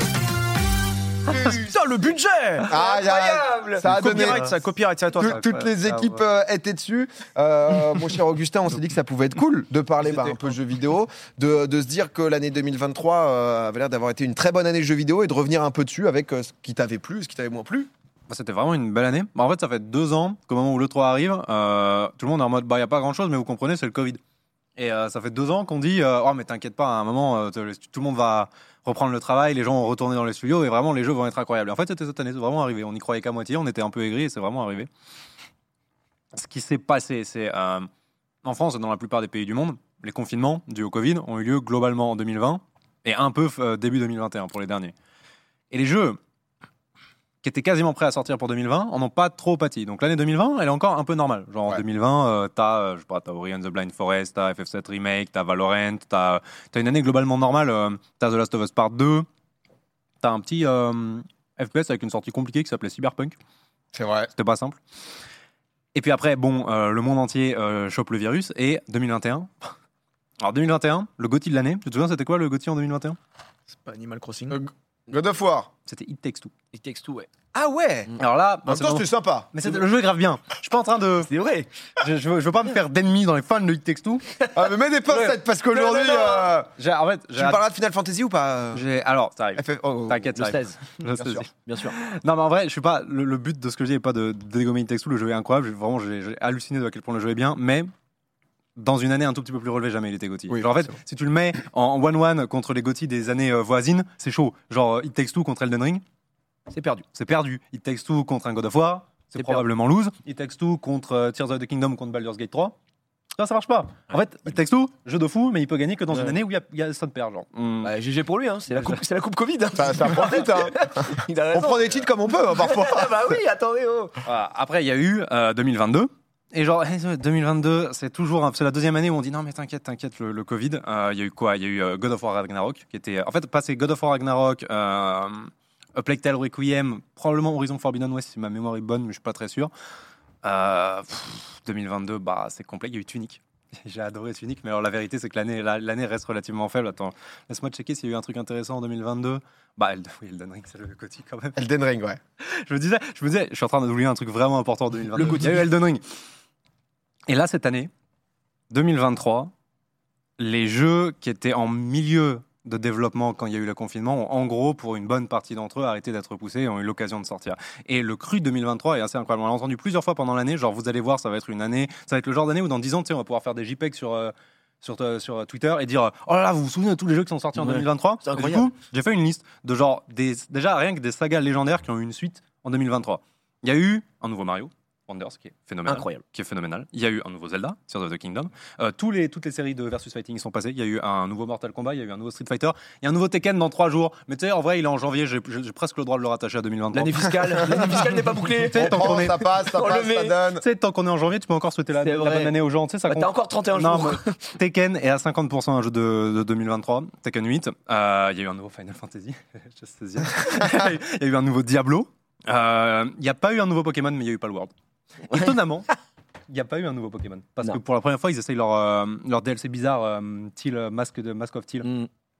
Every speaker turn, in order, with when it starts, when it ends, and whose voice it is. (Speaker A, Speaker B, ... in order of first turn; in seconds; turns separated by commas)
Speaker A: 1.3-2.7, Speaker B: 2.7-4.5, Speaker C: 2.7-3.9, Speaker A: 3.8-5.7, Speaker D: 4.1-4.5, Speaker B: 5.2-17.9, Speaker D: 5.2-6.2, Speaker D: 18.3-24.2, Speaker D: 24.8-34.9, Speaker D: 36.3-37.9, Speaker D: 38.4-44.9, Speaker D: 45.7-46.2, Speaker D: 47.4-59.3, Speaker D: 60.2-63.4, Speaker B: 63.9-64.3, Speaker D: 64.3-64.8, Speaker D: 65.9-69.7, Speaker D: 70.4-73.2, Speaker A: 73.7-74.6, Speaker B: 74.5-75.7, Speaker D: 75.9-76.5, Speaker C: 76.7-77.3, Speaker B: 77.5-78.1, Speaker D: 78.2-81.3, Speaker B: 78.7-79.8, Speaker C: 81.2-81.7, Speaker D: 82.0-84.3, Speaker B: 84.5-86.7, Speaker C: 85.1-86.5, Speaker D: 86.8-87.6, Speaker B: 87.3-88.8, Speaker D: 88.7-97.9, Speaker B: 89.6-90.3, Speaker C: 90.3-90.9, Speaker B: 91.2-91.5, Speaker C: 91.5-92.0, Speaker D: 98.8-106.0, Speaker C: 106.7-107.0, Speaker D: 107.1-112.8, Speaker C: 109.3-109.6, Speaker D: 113.4-117.9, Speaker C: 117.8-124.2, Speaker B: 119.8-123.4, Speaker D: 124.2-139.7, Speaker D: 140.4-151.6, Speaker B: 151.6-152.2, Speaker D: 152.4-156.0, Speaker D: 157.3-157.9, Speaker D: 158.7-159.5, Speaker D: 160.4-197.9, Speaker C: 177.6-178.7, Speaker C: 185.9-186.2, Speaker C: 196.9-200.4, Speaker D: 198.6-199.5, Speaker B: 198.7-200.7, Speaker D: 200.6-214.7, Speaker C: 202.0-204.5, Speaker C: 215.3-215.6, Speaker D: 215.3-215.9, Speaker D: 216.5-221.9